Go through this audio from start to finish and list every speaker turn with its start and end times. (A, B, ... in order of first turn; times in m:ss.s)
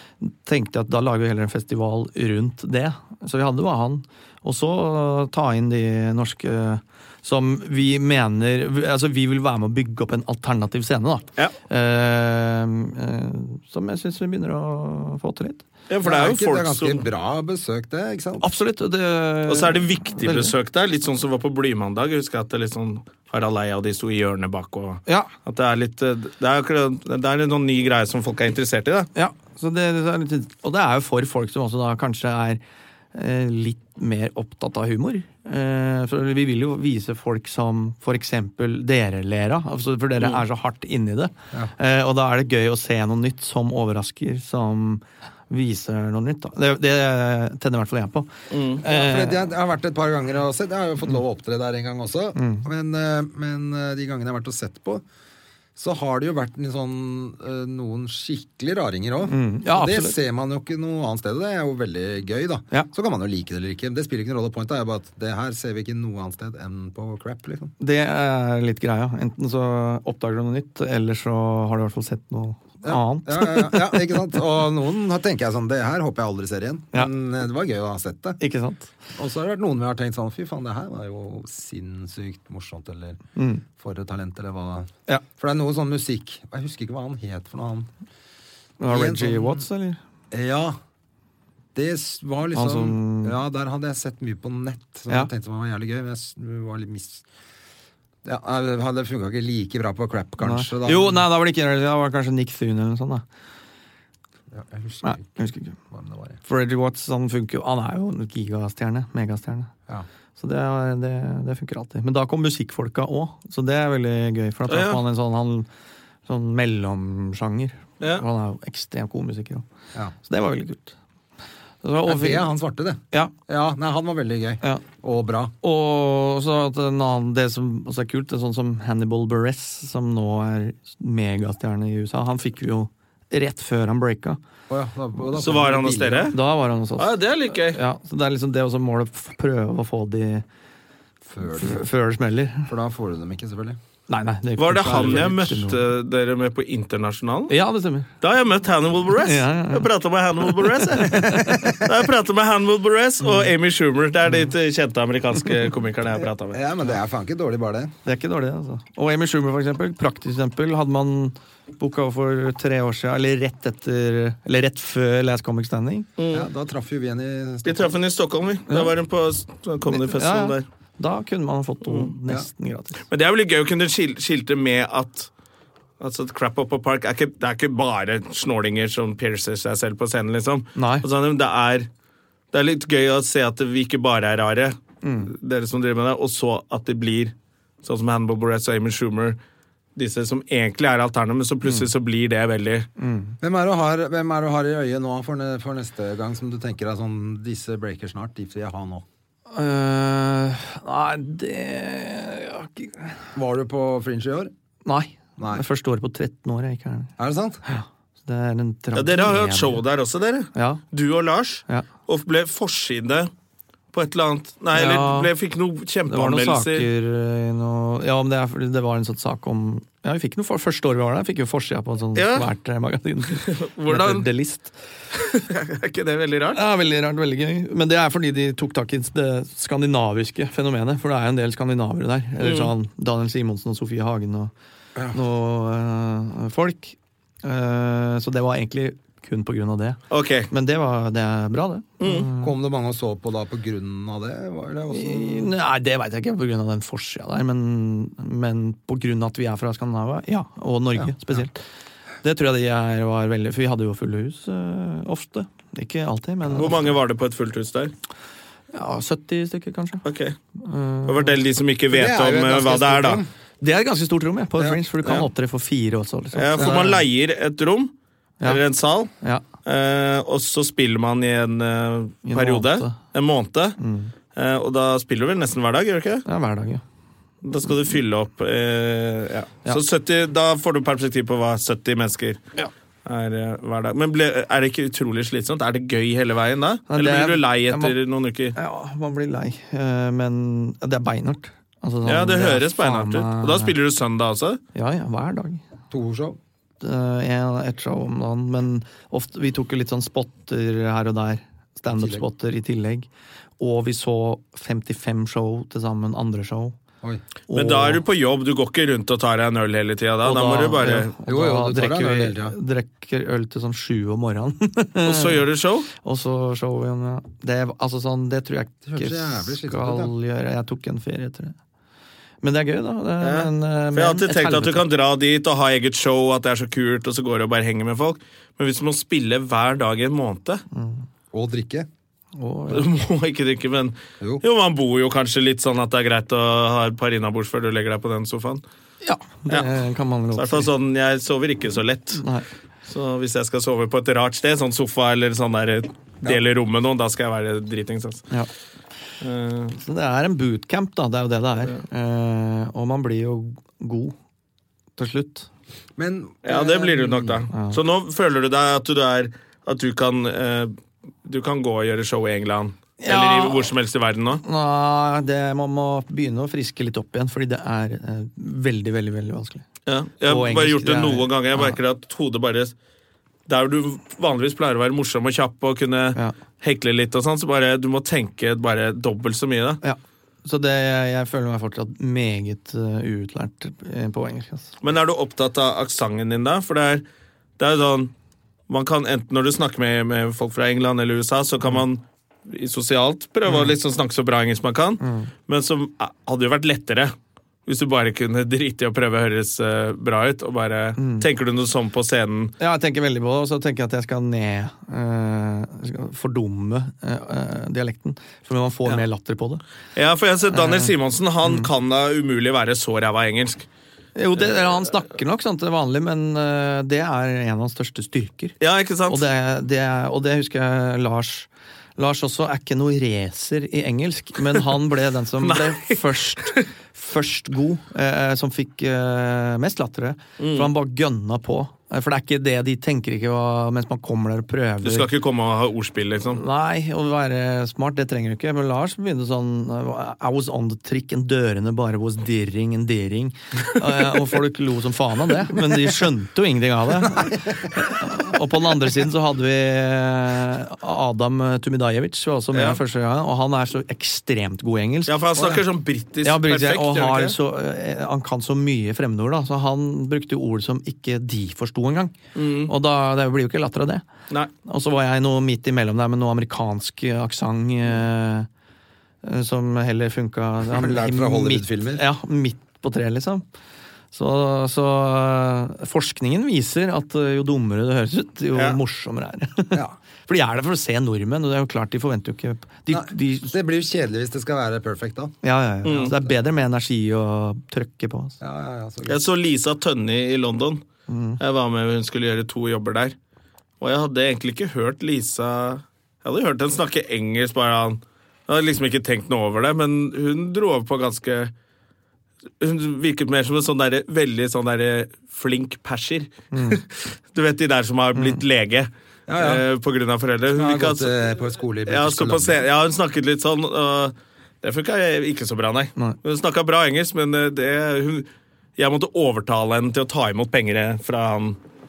0:00.2-0:15.6 A
0:15.9-0:17.0 B
0:16.0-0:18.4 C
0:18.4-0:20.5 A
0:19.5-0:29.1 B
0:29.1-0:32.6 A
0:33.1-0:49.5 A
0:48.5-0:48.8 B
0:48.8-0:55.0 C
0:52.3-0:52.6 A
0:55.8-1:07.7 C
0:59.2-1:00.2 A
1:07.8-1:14.2 A
1:12.8-1:18.4 C
1:18.4-1:18.9 A
1:19.2-1:23.2 C
1:23.4-1:23.6 A
1:23.8-1:27.9 C
1:28.8-1:30.0 A
1:28.9-1:29.6 C
1:30.3-1:30.8 C
1:31.7-1:37.2 C
1:32.5-1:33.4 A
1:38.2-1:41.2 C
1:40.4-1:43.2 A
1:44.5-1:45.4 C
1:45.0-1:45.8 A
1:45.9-1:46.4 C
1:46.4-1:49.7 A
1:50.4-1:55.7 A
1:54.7-1:55.0 B
1:56.2-1:59.6 A
1:58.0-1:58.2 B
2:00.2-2:01.0 A
2:01.8-2:02.5 A
2:02.0-2:05.5 C
2:05.6-2:14.4 A
2:14.7-2:16.3 C
2:15.3-2:16.4 B
2:16.3-2:20.4 A
2:17.0-2:17.8 B
2:21.2-2:21.8 C
2:21.5-2:22.7 A
2:22.7-2:23.8 C
2:24.1-2:25.8 A
2:24.6-2:27.6 B
2:24.8-2:25.2 C
2:27.5-2:28.1 A
2:28.2-2:31.2 B
2:29.2-2:29.9 A
2:30.6-2:31.8 A
2:31.1-2:31.8 C
2:31.7-2:36.6 B
2:36.5-2:37.9 C
2:38.0-2:46.1 A
2:46.2-2:46.4 B
2:46.3-2:47.9 C
2:47.6-2:50.6 B
2:49.8-2:53.0 A
2:51.8-2:52.1 B
2:53.1-2:55.3 B
2:56.0-3:01.9 B
3:00.7-3:01.0 A
3:02.5-3:09.4 B
3:05.0-3:05.3 A
3:10.0-3:12.9 B
3:11.6-3:11.9 A
3:13.0-3:13.4 A
3:13.4-3:19.0 C
3:19.5-3:23.2 A
3:23.3-3:24.5 C
3:24.8-3:27.1 A
3:25.4-3:25.6 C
3:27.2-3:27.6 C
3:27.6-3:29.8 A
3:28.9-3:33.3 B
3:30.5-3:30.8 A
3:33.9-3:36.9 B
3:34.7-3:35.3 A
3:36.1-3:44.7 A
3:42.1-3:42.5 B
3:43.3-3:44.3 B
3:45.1-3:46.6 B
3:46.5-3:54.5 A
3:52.4-3:52.7 B
3:55.1-4:02.5 A
4:00.1-4:00.5 B
4:02.0-4:02.3 B
4:02.4-4:05.5 C
4:04.9-4:11.6 A
4:12.2-4:16.9 A
4:16.5-4:17.9 B
4:18.7-4:20.0 A
4:20.0-4:20.4 B
4:20.6-4:21.4 A
4:21.1-4:23.2 B
4:21.9-4:23.3 C
4:23.6-4:26.9 A
4:26.3-4:29.1 B
4:26.6-4:27.0 C
4:29.6-4:33.8 B
4:32.2-4:33.0 A
4:33.8-4:34.1 A
4:34.3-4:36.2 B
4:36.2-4:36.8 A
4:37.4-4:42.4 B
4:43.0-4:48.6 B
4:46.9-4:48.0 A
4:48.5-4:53.7 A
4:52.0-4:54.6 B
4:54.7-4:55.6 A
4:55.9-4:56.4 C
4:56.8-5:03.1 A
5:01.9-5:02.2 C
5:03.6-5:06.8 A
5:07.5-5:08.0 A
5:07.5-5:11.1 B
5:10.2-5:21.5 A
5:11.2-5:12.6 C
5:15.0-5:15.9 B
5:18.8-5:20.1 C
5:22.4-5:24.8 A
5:23.2-5:30.6 B
5:30.7-5:31.0 A
5:31.3-5:31.9 C
5:32.4-5:32.9 A
5:32.7-5:38.6 B
5:39.0-5:40.7 A
5:40.3-5:42.2 B
5:42.2-5:42.4 A
5:42.8-5:48.2 B
5:49.2-5:49.7 B
5:49.7-5:54.1 A
5:55.0-5:55.5 A
5:56.0-5:57.4 C
5:56.4-6:04.4 B
5:57.5-5:57.8 A
6:03.0-6:03.7 A
6:04.4-6:09.6 A
6:09.8-6:12.7 B
6:10.2-6:11.8 A
6:13.5-6:19.8 B
6:19.8-6:24.7 A
6:24.8-6:27.0 B
6:27.6-6:28.1 B
6:28.7-6:37.1 B
6:35.0-6:35.3 A
6:37.6-6:42.5 B
6:41.0-6:41.2 A
6:42.6-6:49.6 A
6:50.0-6:53.7 B
6:50.5-6:50.9 A
6:51.4-6:51.7 A
6:54.2-6:58.5 A
6:58.6-6:59.2 B
6:59.1-7:15.1 A
7:05.4-7:06.6 B
7:10.4-7:10.7 B
7:14.8-7:16.4 B
7:16.3-7:35.6 A
7:27.0-7:27.8 C
7:32.5-7:32.8 B
7:35.1-7:37.4 B
7:36.2-7:44.0 A
7:42.3-7:42.7 B
7:44.6-7:48.5 A
7:49.2-7:53.4 A
7:50.7-7:52.0 C
7:54.1-8:03.5 A
8:02.9-8:06.3 C
8:05.4-8:08.4 A
8:05.8-8:06.1 B
8:08.4-8:09.2 C
8:09.1-8:10.8 B
8:11.1-8:11.4 A
8:11.4-8:13.2 B
8:13.8-8:21.5 B
8:22.6-8:31.1 B
8:26.5-8:26.8 A
8:28.1-8:28.4 A
8:29.3-8:29.6 C
8:30.5-8:32.6 C
8:31.8-8:41.6 B